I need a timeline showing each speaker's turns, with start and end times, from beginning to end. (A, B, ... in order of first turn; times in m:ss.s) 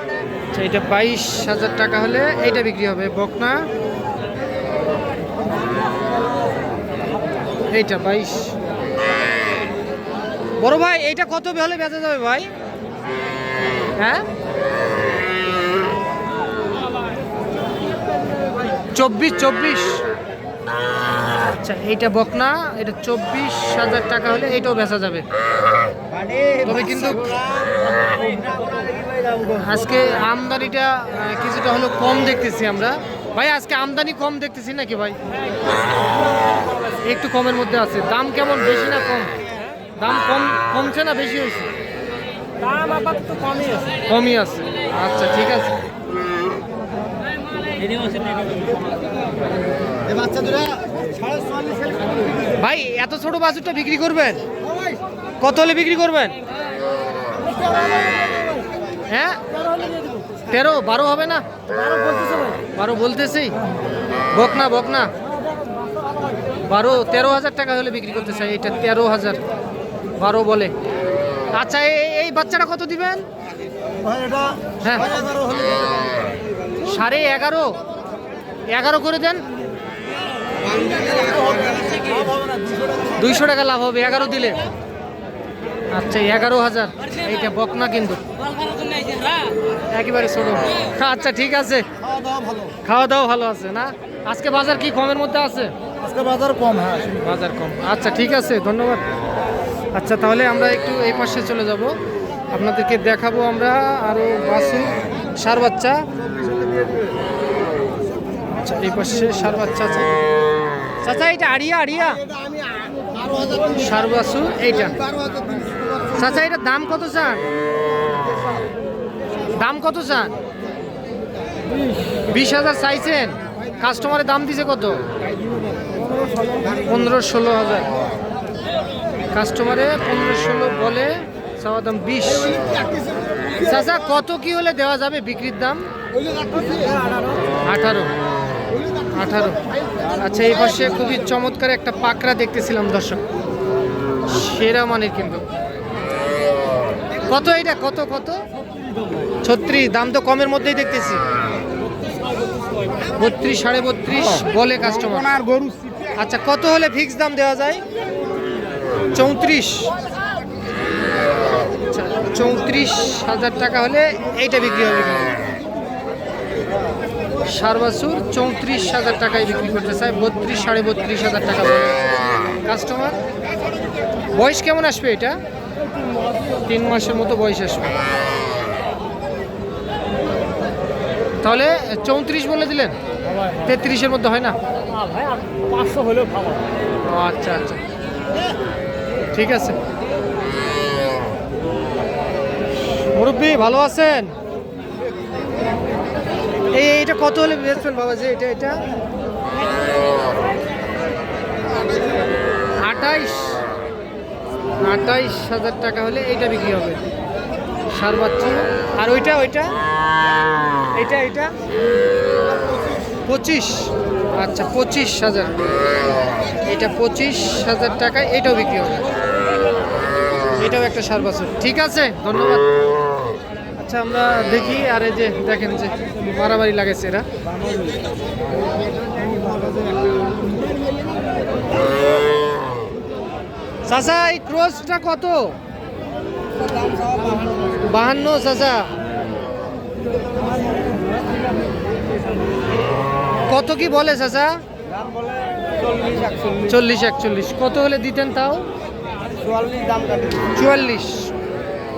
0:00.5-0:03.7 A
0:07.7-0:08.5 A
0:10.6-0:12.5 A
0:14.0-0:14.2 A
0:18.9-0:20.0 A
0:21.4-0:25.2 A
0:26.6-0:27.4 A
0:28.0-0:28.8 B
0:29.5-0:35.2 A
0:37.0-0:39.4 A
0:40.0-0:41.7 A
0:42.7-0:43.8 B
0:44.0-0:45.8 A
0:50.4-0:50.7 C
0:51.4-0:52.0 B
0:52.6-0:54.4 A
0:55.4-0:56.4 A
0:59.1-0:59.4 A
1:00.5-1:01.4 A
1:02.7-1:03.6 A
1:04.3-1:05.1 A
1:06.6-1:09.4 A
1:10.2-1:10.7 A
1:11.5-1:13.2 A
1:14.8-1:15.2 A
1:16.8-1:17.7 A
1:18.7-1:19.4 A
1:20.7-1:22.4 B
1:23.1-1:24.6 A
1:25.9-1:28.2 A
1:29.9-1:31.9 A
1:32.8-1:35.7 A
1:36.2-1:37.0 C
1:37.0-1:39.0 A
1:39.9-1:42.0 A
1:42.5-1:46.0 A
1:48.6-1:50.1 A
1:51.0-1:52.3 A
1:53.7-1:55.0 A
1:56.1-1:57.4 A
1:59.5-2:00.3 A
2:02.3-2:05.0 A
2:06.8-2:08.0 A
2:09.3-2:12.8 A
2:13.5-2:15.9 A
2:16.3-2:17.0 C
2:17.6-2:18.1 A
2:19.1-2:23.2 A
2:24.2-2:25.4 A
2:27.2-2:28.4 A
2:29.4-2:31.2 A
2:33.2-2:35.4 A
2:36.1-2:37.8 A
2:39.1-2:39.9 A
2:41.9-2:45.4 A
2:47.4-2:53.2 A
2:54.3-2:55.4 A
2:56.6-2:58.0 A
3:01.4-3:03.0 A
3:03.5-3:04.6 A
3:05.1-3:06.6 C
3:07.0-3:07.8 A
3:09.3-3:09.8 A
3:13.1-3:14.3 A
3:16.7-3:18.8 A
3:22.8-3:23.6 A
3:24.8-3:27.1 A
3:27.9-3:29.8 A
3:30.9-3:31.5 A
3:33.3-3:35.6 A
3:36.6-3:39.1 A
3:40.6-3:42.7 A
3:43.8-3:47.3 A
3:53.8-3:55.6 A
3:56.8-3:57.4 B
3:57.8-3:58.9 A
4:03.5-4:04.6 A
4:05.0-4:06.7 B
4:06.7-4:08.7 A
4:09.4-4:10.5 B
4:10.5-4:11.3 A